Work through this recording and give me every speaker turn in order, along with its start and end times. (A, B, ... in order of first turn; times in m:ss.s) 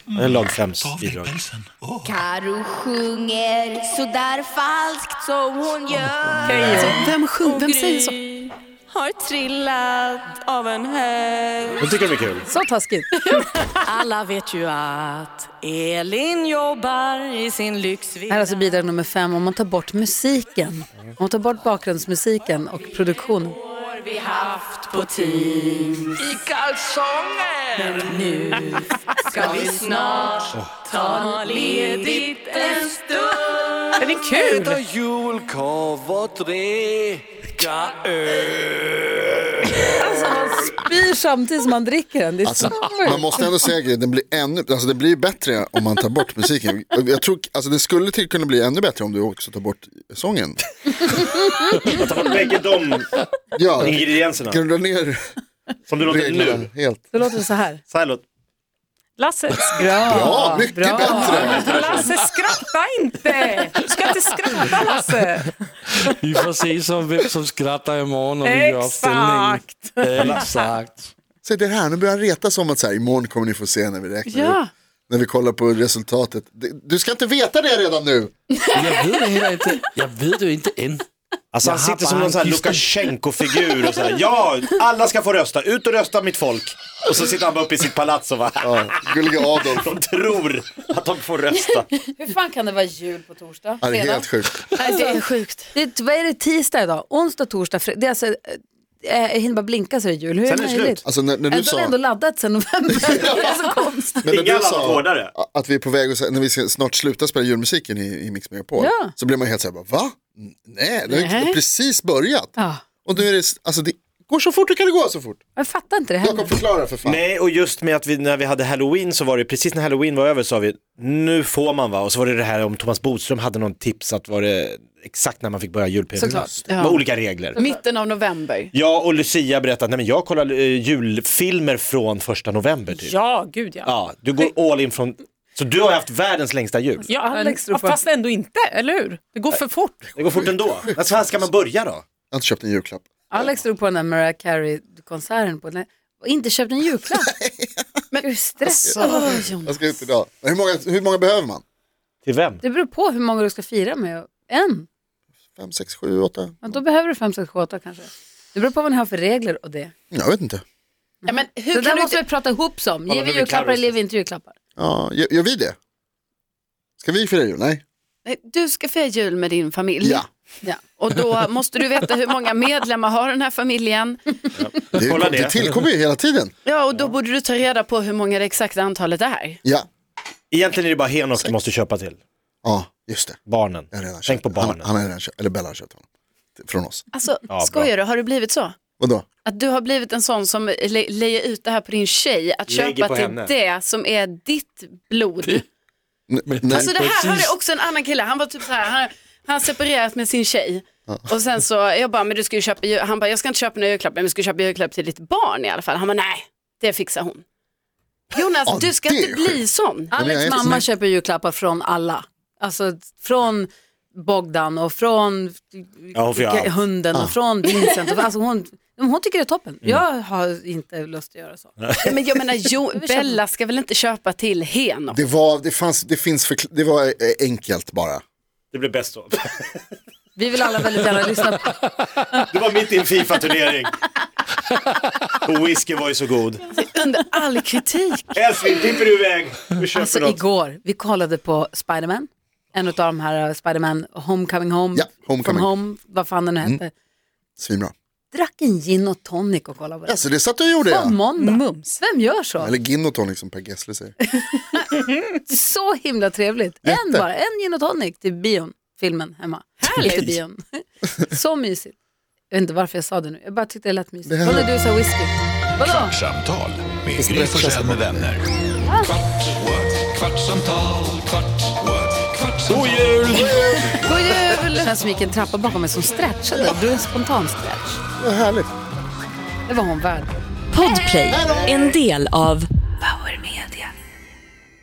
0:00.2-0:01.4 A
0:00.8-0:01.5 B
0:02.0-0:12.2 C
0:06.1-0:06.6 B
0:06.4-0:06.9 D
0:06.7-0:08.2 E
0:11.8-0:12.5 A
0:12.5-0:13.2 F
0:13.8-0:18.6 C
0:18.3-0:23.6 F
0:23.6-0:26.3 C
0:26.2-0:28.2 B
0:27.8-0:34.3 C
0:28.7-0:29.2 D
0:34.0-0:34.8 D
0:34.3-0:40.0 B
0:39.9-0:43.2 F
0:42.4-0:50.6 G
0:42.8-0:43.2 B
0:51.0-0:52.0 F
0:52.0-0:53.1 A
0:53.6-0:55.2 G
0:53.8-0:54.6 A
0:55.9-0:56.7 A
0:56.0-0:57.1 G
0:57.1-0:57.8 F
0:57.9-0:58.2 A
0:59.2-1:00.0 D
0:59.8-1:01.8 F
1:00.1-1:01.9 G
1:00.9-1:05.5 D
1:01.7-1:02.2 B
1:04.7-1:05.2 B
1:05.9-1:11.1 B
1:08.4-1:10.6 D
1:11.4-1:18.3 G
1:14.3-1:14.7 E
1:18.5-1:19.3 E
1:18.7-1:21.1 B
1:21.5-1:29.0 A
1:21.6-1:22.9 B
1:28.6-1:29.9 G
1:29.5-1:31.9 A
1:32.1-1:34.3 F
1:33.8-1:34.6 G
1:34.7-1:35.7 E
1:34.8-1:35.2 F
1:35.7-1:44.2 F
1:40.4-1:41.0 A
1:41.0-1:42.0 G
1:43.1-1:43.4 G
1:44.2-1:55.4 G
1:44.3-1:45.3 A
1:48.8-1:49.1 F
1:51.1-1:51.6 E
1:52.6-1:52.8 F
1:55.6-1:56.6 F
1:56.2-1:57.2 G
1:57.0-2:07.6 A
2:06.2-2:06.6 F
2:06.7-2:07.0 E
2:07.6-2:08.7 E
2:08.7-2:13.2 A
2:13.0-2:13.9 D
2:13.9-2:17.1 A
2:17.1-2:20.1 D
2:17.1-2:18.0 F
2:20.2-2:22.0 A
2:22.3-2:23.0 G
2:23.3-2:27.4 F
2:27.3-2:27.8 G
2:28.1-2:29.7 E
2:28.2-2:29.3 F
2:28.8-2:31.6 G
2:32.3-2:32.6 A
2:32.6-2:34.9 F
2:35.6-2:36.7 G
2:36.6-2:39.9 F
2:40.1-2:40.6 G
2:41.2-2:44.6 F
2:41.3-2:42.2 E
2:43.1-2:43.9 A
2:44.8-2:45.8 G
2:47.0-2:47.8 G
2:48.2-2:50.3 E
2:51.0-2:54.4 E
2:54.6-2:55.6 A
2:55.0-2:56.5 G
2:56.6-2:59.6 E
3:00.5-3:02.2 A
3:01.4-3:01.7 G
3:02.6-3:03.4 G
3:03.5-3:04.9 A
3:03.9-3:06.0 G
3:06.6-3:07.0 G
3:07.1-3:08.8 E
3:07.5-3:07.9 A
3:09.0-3:09.2 G
3:09.4-3:15.6 E
3:12.7-3:13.6 A
3:16.3-3:16.9 G
3:16.4-3:17.6 B
3:16.7-3:27.4 E
3:28.3-3:30.1 E
3:28.7-3:30.9 G
3:30.1-3:41.7 F
3:36.1-3:36.8 A
3:41.8-3:42.1 A
3:42.0-3:45.2 E
3:43.0-3:43.4 F
3:45.1-3:48.2 G
3:48.7-3:49.8 A
3:50.4-3:51.7 F
3:52.5-3:53.9 A
3:55.4-3:56.7 A
3:56.7-3:58.8 E
3:58.4-4:00.4 A
4:00.0-4:06.9 F
4:05.0-4:05.7 G
4:07.6-4:07.9 G
4:08.3-4:10.3 F
4:10.1-4:11.2 G
4:10.8-4:12.7 F
4:11.4-4:12.0 D
4:12.6-4:14.2 G
4:14.3-4:14.9 F
4:15.4-4:22.0 F
4:16.8-4:17.2 G
4:19.9-4:20.4 A
4:22.5-4:26.2 F
4:24.3-4:24.7 G
4:25.8-4:28.5 H
4:27.2-4:28.3 G
4:28.8-4:29.2 F
4:29.6-4:33.5 H
4:32.7-4:33.0 A
4:33.2-4:34.0 G
4:33.5-4:34.9 E
4:33.9-4:38.0 F
4:38.2-4:38.7 G
4:39.7-4:41.4 F
4:40.7-4:42.7 I
4:41.3-4:42.0 G
4:43.0-4:43.9 C